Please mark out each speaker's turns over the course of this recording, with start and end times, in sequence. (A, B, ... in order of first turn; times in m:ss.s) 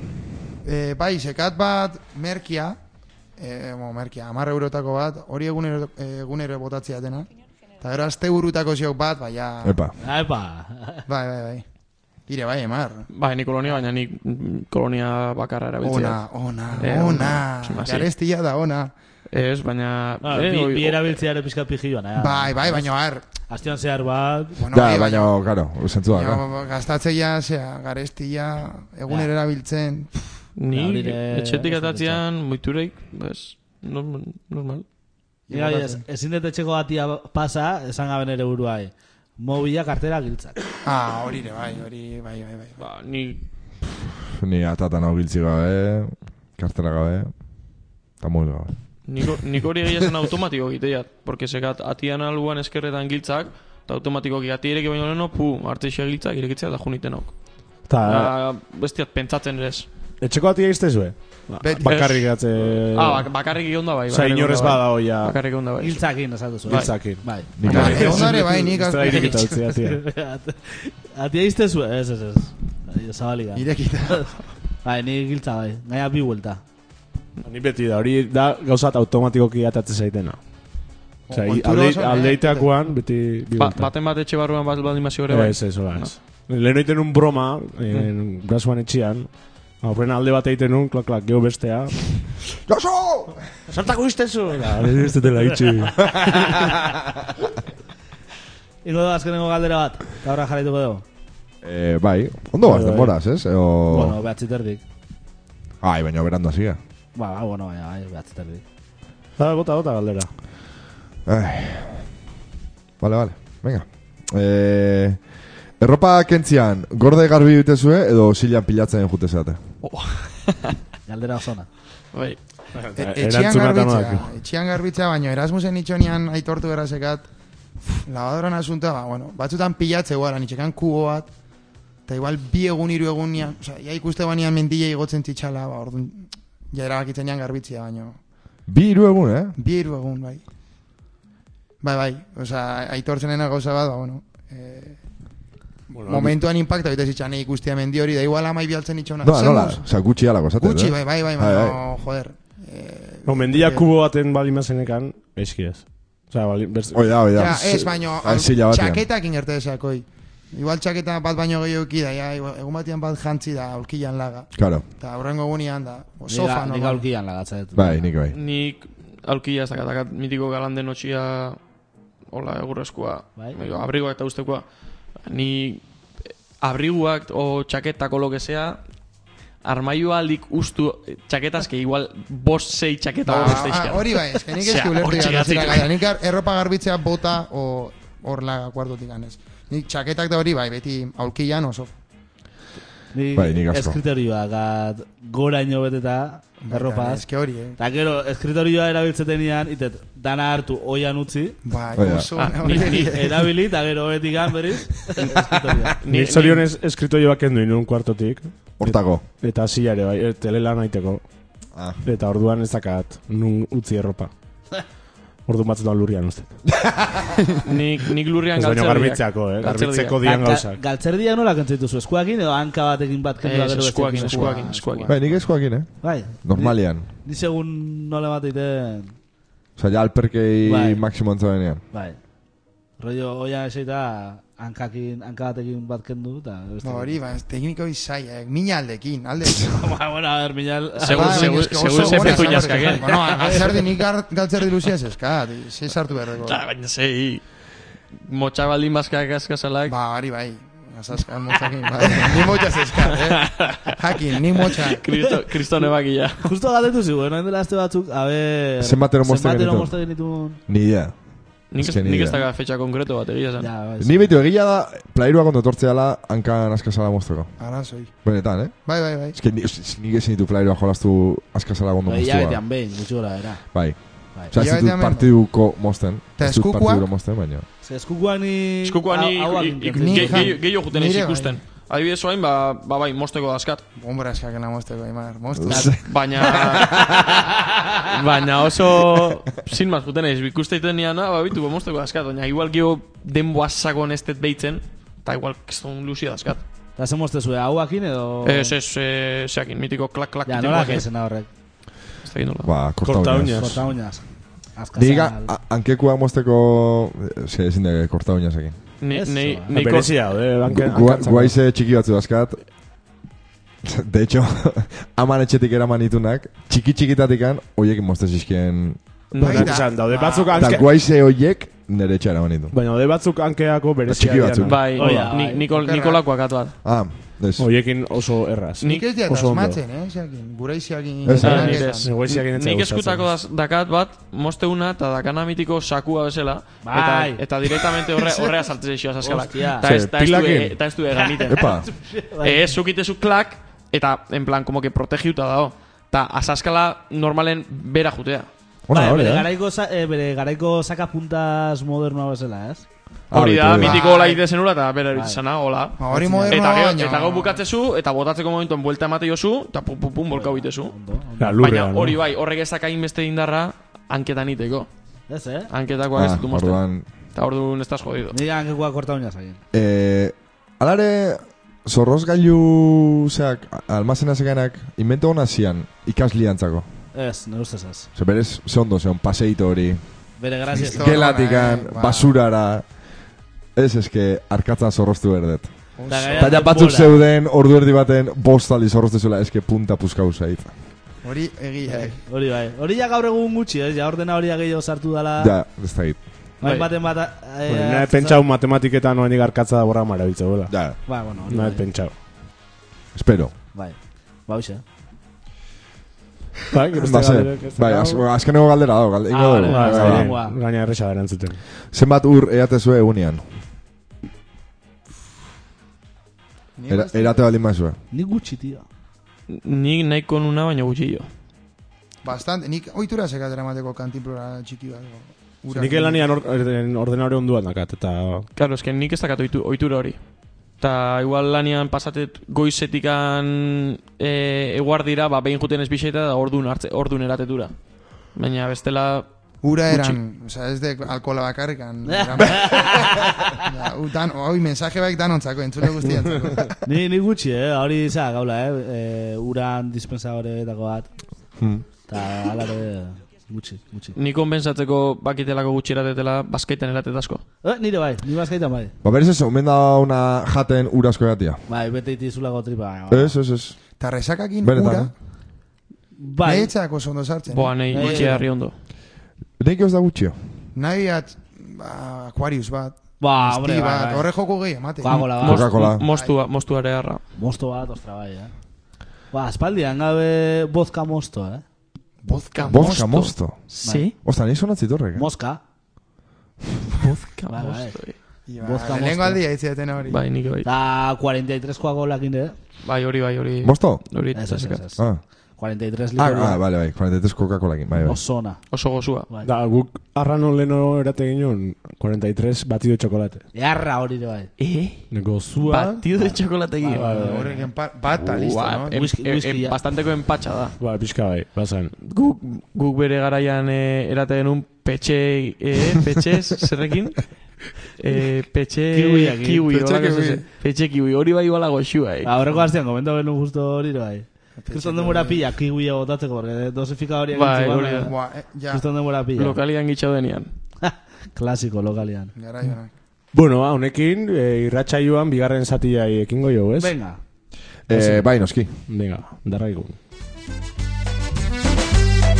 0:00.6-0:02.8 A
0:03.4-0:07.3 A
0:07.8-0:09.8 A
0:09.6-0:09.9 B
0:10.0-0:11.0 C
0:11.1-0:11.6 A
0:12.3-0:13.1 A
0:13.1-0:16.2 D
0:15.8-0:18.9 A
0:16.8-0:18.1 D
0:19.3-0:21.2 D
0:20.2-0:22.9 C
0:22.2-0:23.2 A
0:23.4-0:24.6 C
0:24.6-0:25.3 A
0:24.7-0:26.4 B
0:26.1-0:30.2 A
0:30.6-0:34.8 D
0:30.7-0:32.2 C
0:35.5-0:36.0 A
0:35.5-0:40.6 C
0:40.8-0:42.8 A
0:42.8-0:43.4 D
0:44.3-0:47.3 B
0:48.2-0:48.7 B
0:49.1-0:57.4 D
0:57.9-0:58.3 E
0:58.0-0:59.9 D
1:00.2-1:03.3 E
1:01.6-1:02.2 A
1:01.8-1:02.3 D
1:02.9-1:06.0 D
1:04.1-1:05.4 E
1:05.8-1:14.2 C
1:06.7-1:10.0 E
1:07.6-1:08.3 B
1:07.6-1:09.6 A
1:13.5-1:14.4 A
1:14.8-1:16.6 C
1:17.4-1:20.4 E
1:21.3-1:22.7 A
1:21.3-1:23.9 E
1:23.6-1:26.1 D
1:25.3-1:29.3 E
1:29.8-1:31.9 E
1:32.7-1:33.4 B
1:33.7-1:36.6 E
1:36.0-1:36.8 B
1:38.8-1:41.0 C
1:41.6-1:44.2 B
1:42.6-1:43.1 E
1:43.9-1:44.8 C
1:45.8-1:46.8 B
1:47.1-1:48.6 C
1:49.4-1:50.3 E
1:51.2-1:52.0 B
1:53.0-1:55.2 B
1:55.8-1:59.6 B
1:59.8-2:00.8 D
2:01.1-2:01.7 C
2:02.1-2:02.4 D
2:02.8-2:04.3 E
2:03.0-2:07.2 A
2:07.9-2:11.3 A
2:12.1-2:18.2 A
2:18.7-2:19.5 B
2:19.6-2:20.4 A
2:21.8-2:25.0 A
2:25.9-2:29.8 A
2:26.0-2:26.4 E
2:29.2-2:31.8 B
2:30.6-2:33.9 A
2:33.2-2:37.6 E
2:36.9-2:39.0 B
2:37.3-2:47.0 A
2:44.5-2:44.8 B
2:46.3-2:48.1 C
2:47.7-2:48.4 B
2:48.3-2:51.6 D
2:52.3-2:54.6 D
2:55.2-2:55.8 D
2:56.6-2:58.8 D
2:59.6-3:05.9 D
3:03.2-3:11.9 A
3:13.1-3:17.2 C
3:13.3-3:14.0 B
3:16.6-3:17.8 A
3:17.8-3:21.6 C
3:21.6-3:23.4 A
3:21.9-3:22.3 B
3:22.4-3:23.2 D
3:23.0-3:26.0 C
3:26.0-3:26.6 D
3:26.1-3:31.2 E
3:28.8-3:29.2 B
3:31.8-3:32.0 B
3:32.0-3:34.3 E
3:35.5-3:36.5 E
3:36.8-3:37.3 B
3:37.6-3:40.2 D
3:38.5-3:40.8 E
3:40.2-3:45.1 C
3:43.4-3:45.2 D
3:44.2-3:45.2 A
3:45.0-3:47.1 B
3:46.0-3:49.1 C
3:49.8-3:51.8 B
3:50.6-3:51.0 C
3:51.9-3:52.2 C
3:53.0-3:57.2 C
3:56.8-3:59.9 A
3:59.7-4:03.8 C
4:01.0-4:03.4 D
4:01.1-4:06.6 A
4:06.4-4:07.4 D
4:08.2-4:10.0 D
4:09.9-4:15.0 A
4:13.1-4:13.9 D
4:14.6-4:16.5 D
4:16.4-4:20.6 C
4:18.8-4:20.0 B
4:20.7-4:21.1 B
4:21.7-4:23.7 D
4:21.8-4:22.4 B
4:23.6-4:24.3 C
4:24.0-4:27.5 B
4:27.6-4:28.1 A
4:28.2-4:28.8 B
4:28.8-4:29.4 A
4:29.3-4:32.6 B
4:32.1-4:33.6 C
4:33.7-4:37.6 B
4:34.5-4:35.3 A
4:36.4-4:37.0 A
4:37.8-4:40.5 C
4:38.8-4:43.8 D
4:40.0-4:41.6 A
4:44.0-4:47.0 A
4:45.6-4:46.0 B
4:45.9-4:47.2 D
4:46.7-4:47.2 B
4:48.0-4:56.6 D
4:57.0-4:58.7 C
4:58.4-5:01.0 D
5:00.4-5:01.5 C
5:02.2-5:02.7 D
5:02.6-5:03.8 B
5:03.0-5:03.8 E
5:03.6-5:04.2 C
5:04.7-5:05.5 C
5:04.9-5:08.7 B
5:09.0-5:10.2 D
5:09.1-5:09.7 C
5:09.7-5:11.5 E
5:10.6-5:12.6 B
5:13.8-5:19.0 B
5:19.3-5:19.8 D
5:19.4-5:20.3 A
5:19.4-5:20.9 E
5:20.1-5:20.6 C
5:20.6-5:22.7 B
5:22.7-5:25.3 E
5:24.1-5:24.8 B
5:24.6-5:26.7 D
5:25.0-5:25.6 C
5:25.7-5:26.2 A
5:26.8-5:27.7 B
5:27.6-5:29.8 E
5:28.8-5:32.1 A
5:31.2-5:31.8 B
5:31.4-5:33.3 E
5:31.4-5:41.8 D
5:36.8-5:37.4 C
5:39.2-5:39.9 C
5:39.9-5:40.7 B
5:41.1-5:42.7 C
5:41.5-5:41.9 B
5:42.4-5:48.5 D
5:48.9-5:49.5 B
5:48.9-5:52.8 C
5:53.3-5:54.0 B
5:53.3-5:56.0 D
5:53.8-5:54.4 C
5:55.1-5:55.4 C
5:56.0-5:57.6 A
5:56.1-5:56.6 C
5:56.5-6:00.9 D
6:00.3-6:01.7 C
6:01.4-6:02.2 E
6:01.6-6:04.9 D
6:05.3-6:05.7 C
6:05.7-6:06.8 D
6:06.1-6:07.0 B
6:07.3-6:08.4 D
6:08.3-6:09.6 C
6:09.7-6:16.8 B
6:17.1-6:18.1 C
6:18.1-6:20.0 B
6:20.4-6:21.2 C
6:20.7-6:22.3 A
6:20.8-6:22.8 B
6:23.7-6:25.7 B
6:26.0-6:26.6 A
6:26.1-6:27.2 C
6:26.3-6:30.7 B
6:31.2-6:32.2 A
6:31.9-6:35.5 C
6:35.4-6:36.2 B
6:36.6-6:38.4 C
6:36.6-6:36.9 D
6:37.7-6:40.7 E
6:40.7-6:41.0 B
6:41.0-6:41.8 C
6:41.5-6:42.1 E
6:43.1-6:43.5 B
6:44.5-6:44.8 C
6:46.7-6:48.2 E
6:47.0-6:50.3 B
6:49.3-6:50.6 C
6:49.7-6:51.6 E
6:51.9-6:53.4 B
6:56.8-6:57.4 A
6:56.9-6:58.0 B
6:58.1-6:58.8 C
6:59.5-7:01.3 D
7:02.2-7:06.3 A
7:05.7-7:08.5 E
7:08.6-7:10.2 D
7:10.8-7:17.7 D
7:18.3-7:19.3 D
7:19.6-7:26.8 A
7:19.9-7:20.2 D
7:22.0-7:23.6 C
7:26.8-7:31.1 C
7:31.6-7:31.8 B
7:32.1-7:34.2 C
7:34.1-7:37.4 D
7:37.6-7:38.9 C
7:39.0-7:41.6 B
7:41.7-7:43.4 C
7:43.1-7:43.8 B
7:44.0-7:45.1 A
7:44.6-7:45.1 B
7:46.2-7:46.7 C
7:46.4-7:48.3 A
7:47.5-7:48.7 D
7:47.9-7:48.4 C
7:49.6-7:50.4 B
7:50.7-7:55.2 A
7:53.2-7:54.3 C
7:55.0-7:55.7 C
7:55.1-7:57.2 D
7:55.4-7:56.0 B
7:56.0-7:56.3 A
7:57.4-7:58.5 C
7:59.3-8:01.6 C
8:02.2-8:03.2 A
8:02.4-8:04.1 D
8:02.7-8:03.6 B
8:03.8-8:04.1 C
8:04.2-8:05.2 B
8:05.2-8:05.6 C
8:06.9-8:08.2 D
8:07.5-8:08.0 C
8:08.5-8:10.2 A
8:08.6-8:09.4 C
8:10.1-8:10.7 D
8:10.6-8:12.5 C
8:12.8-8:14.8 D
8:13.6-8:14.0 B
8:14.3-8:15.0 C
8:15.6-8:16.6 C
8:16.2-8:18.2 B
8:18.0-8:18.6 C
8:18.7-8:19.3 D
8:19.4-8:23.4 E
8:23.5-8:24.5 C
8:24.6-8:25.0 D
8:25.1-8:25.7 E
8:25.5-8:27.7 C
8:25.7-8:27.2 D
8:26.9-8:27.5 E
8:27.1-8:28.9 A
8:28.2-8:30.7 D
8:28.9-8:29.8 C
8:30.8-8:31.9 E
8:32.0-8:37.3 D
8:38.0-8:42.3 D
8:38.9-8:39.7 C
8:39.7-8:40.4 A
8:42.2-8:48.1 C
8:44.6-8:45.4 A
8:47.3-8:48.1 D
8:48.0-8:48.8 A
8:48.7-8:49.6 C
8:49.4-8:50.5 D
8:50.8-8:52.3 C
8:52.4-8:52.9 A
8:53.3-8:56.9 E
8:56.8-8:57.2 C
8:57.9-8:58.7 B
8:57.9-8:58.3 E
8:58.9-8:59.9 E